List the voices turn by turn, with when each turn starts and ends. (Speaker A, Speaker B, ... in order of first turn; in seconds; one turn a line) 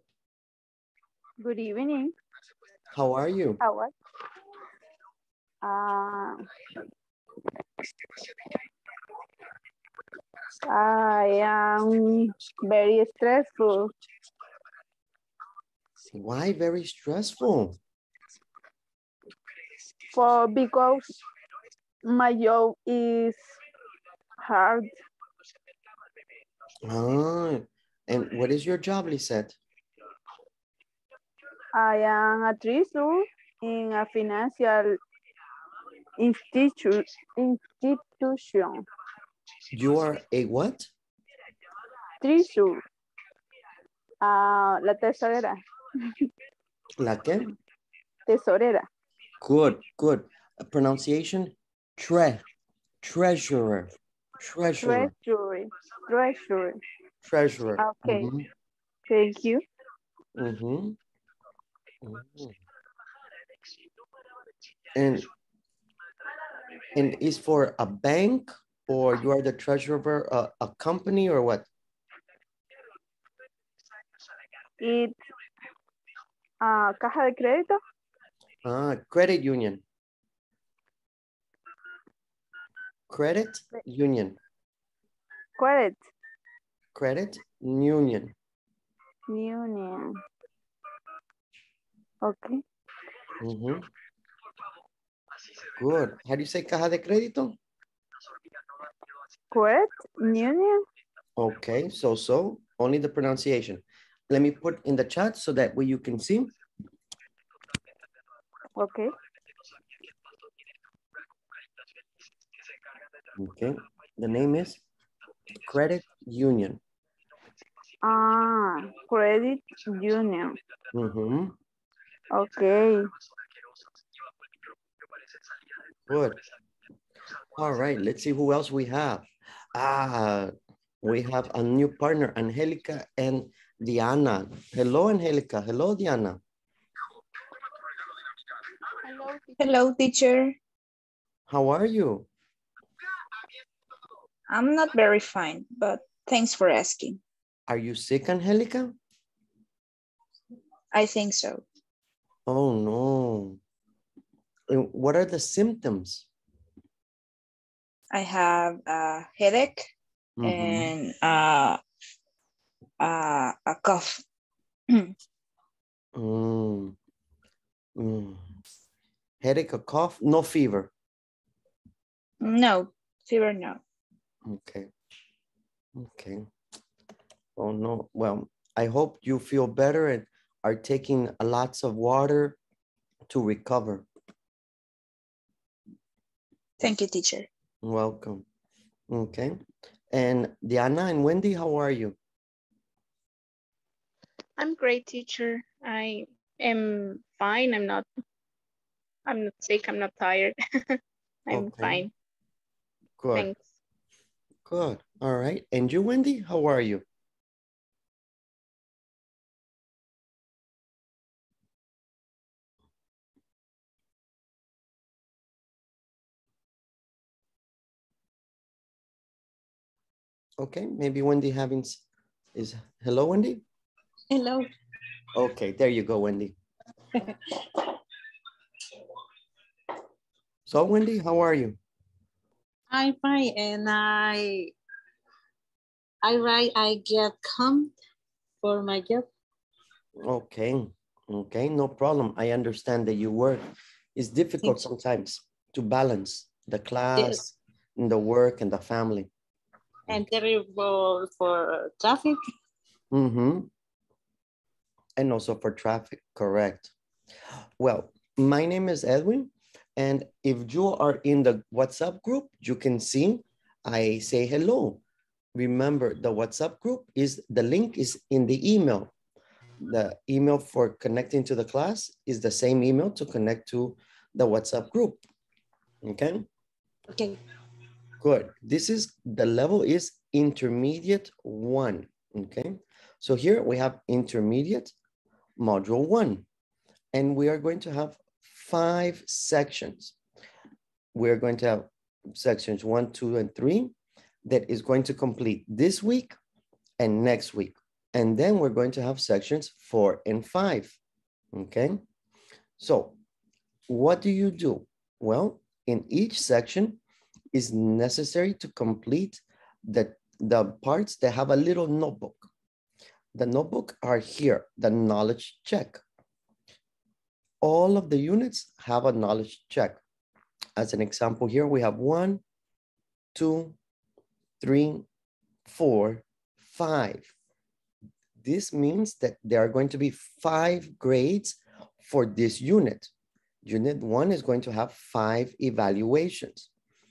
Speaker A: 1.4-2.1
Speaker B: 2.9-3.6
Speaker A: 3.6-3.9
Speaker A: 5.6-6.4
Speaker A: 10.7-13.9
Speaker B: 16.0-17.8
Speaker A: 20.1-21.0
Speaker A: 22.0-23.4
Speaker A: 24.4-24.9
Speaker B: 26.8-29.6
Speaker A: 31.7-34.9
Speaker A: 36.2-38.8
Speaker B: 39.7-40.9
Speaker A: 42.2-42.8
Speaker A: 44.2-45.6
Speaker B: 47.0-47.5
Speaker A: 48.3-48.9
Speaker B: 49.4-52.4
Speaker B: 53.0-55.1
Speaker A: 54.8-56.8
Speaker B: 57.2-58.5
Speaker A: 57.8-58.3
Speaker A: 59.1-59.6
Speaker B: 60.3-61.0
Speaker B: 62.0-62.6
Speaker B: 64.9-65.3
Speaker B: 66.9-71.7
Speaker A: 74.8-75.1
Speaker A: 76.6-77.8
Speaker B: 78.6-79.8
Speaker B: 83.1-84.4
Speaker A: 85.6-86.0
Speaker B: 86.9-88.3
Speaker A: 89.3-90.1
Speaker A: 92.2-92.6
Speaker B: 93.4-93.9
Speaker B: 95.8-97.6
Speaker A: 99.5-100.8
Speaker B: 101.4-106.5
Speaker A: 108.8-109.1
Speaker B: 113.3-114.8
Speaker B: 115.6-116.8
Speaker A: 118.0-120.6
Speaker B: 120.9-121.5
Speaker A: 122.3-123.0
Speaker B: 126.1-126.4
Speaker B: 127.5-136.4
Speaker C: 139.0-139.6
Speaker D: 139.6-140.6
Speaker B: 141.5-142.3
Speaker D: 144.5-147.2
Speaker B: 147.7-149.0
Speaker D: 150.9-151.6
Speaker B: 152.5-153.6
Speaker B: 154.7-156.3
Speaker D: 158.1-159.9
Speaker B: 160.4-160.9
Speaker D: 160.4-161.8
Speaker D: 163.0-164.2
Speaker B: 166.1-166.9
Speaker B: 168.0-168.4
Speaker B: 169.4-170.9
Speaker D: 172.4-173.8
Speaker B: 174.4-174.9
Speaker B: 175.9-176.5
Speaker B: 177.6-182.6
Speaker B: 183.3-184.1
Speaker D: 186.8-187.5
Speaker B: 187.8-188.4
Speaker B: 189.1-189.6
Speaker B: 190.1-192.2
Speaker C: 194.6-198.1
Speaker C: 199.2-202.1
Speaker B: 201.5-202.1
Speaker B: 203.2-203.5
Speaker C: 203.3-203.7
Speaker B: 204.7-207.0
Speaker B: 220.6-222.0
Speaker B: 222.5-223.6
Speaker E: 224.3-224.7
Speaker B: 225.3-226.6
Speaker B: 230.7-231.8
Speaker E: 232.9-234.7
Speaker E: 236.2-237.9
Speaker E: 238.6-239.3
Speaker B: 240.2-243.6
Speaker B: 244.1-249.3
Speaker E: 244.6-244.9
Speaker E: 247.2-247.4
Speaker E: 250.1-252.4
Speaker B: 253.1-253.7
Speaker B: 255.2-256.9
Speaker B: 257.8-265.0
Speaker B: 265.5-269.1
Speaker B: 269.8-275.2
Speaker B: 276.0-276.5
Speaker E: 277.1-277.4
Speaker B: 278.2-284.9
Speaker B: 285.6-286.4
Speaker B: 287.1-290.1
Speaker B: 291.1-293.9
Speaker B: 294.4-296.4
Speaker B: 297.0-301.0
Speaker B: 301.5-302.0
Speaker B: 302.8-303.2
Speaker B: 303.9-307.0
Speaker B: 307.5-312.5
Speaker B: 313.3-316.0
Speaker B: 317.6-320.0
Speaker B: 320.8-322.4
Speaker B: 323.3-323.8
Speaker B: 324.6-325.1
Speaker B: 325.6-327.3
Speaker B: 328.4-333.1
Speaker B: 333.6-336.7